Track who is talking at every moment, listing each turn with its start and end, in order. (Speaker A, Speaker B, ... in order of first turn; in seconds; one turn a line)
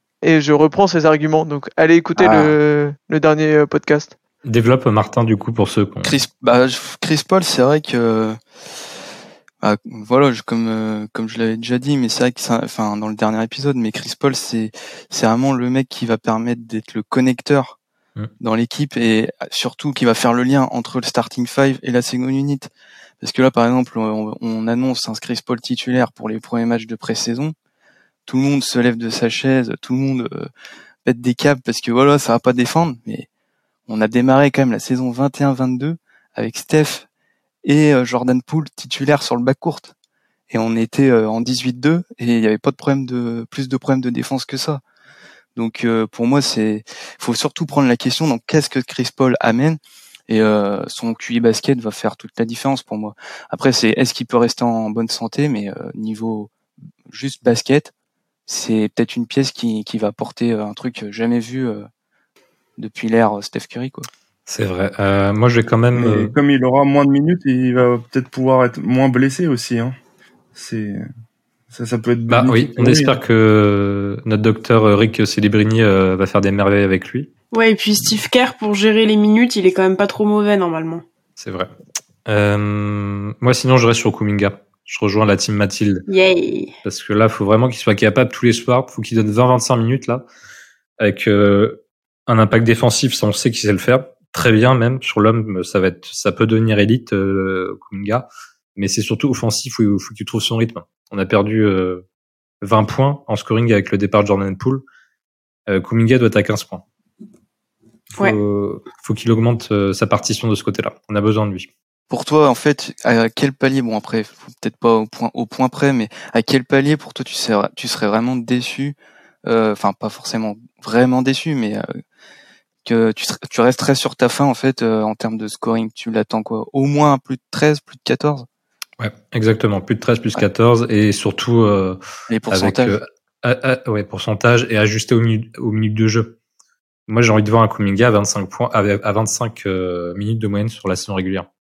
Speaker A: 0.2-4.1
Speaker B: 2.2-2.5
Speaker C: 4.4-6.2
Speaker B: 6.0-8.4
Speaker B: 9.6-17.8
Speaker B: 18.4-22.7
Speaker B: 23.2-27.5
Speaker B: 28.3-30.5
Speaker B: 31.0-33.3
Speaker B: 33.9-37.0
Speaker B: 37.6-39.9
Speaker B: 40.5-44.8
Speaker B: 45.5-56.5
Speaker B: 57.1-57.9
Speaker B: 58.5-61.9
Speaker B: 62.8-64.1
Speaker C: 64.5-66.3
Speaker D: 65.9-70.0
Speaker D: 70.5-71.1
Speaker D: 71.7-73.2
Speaker C: 72.3-77.3
Speaker E: 77.5-81.0
Speaker C: 81.4-81.7
Speaker C: 82.2-86.0
Speaker E: 86.1-86.7
Speaker C: 86.8-90.2
Speaker C: 91.0-102.0
Speaker C: 102.6-104.8
Speaker C: 105.7-106.8
Speaker C: 108.2-111.7
Speaker B: 112.1-121.8
Speaker B: 122.8-128.4
Speaker C: 129.0-132.0
Speaker B: 132.3-133.0
Speaker C: 132.5-136.4
Speaker C: 137.1-141.5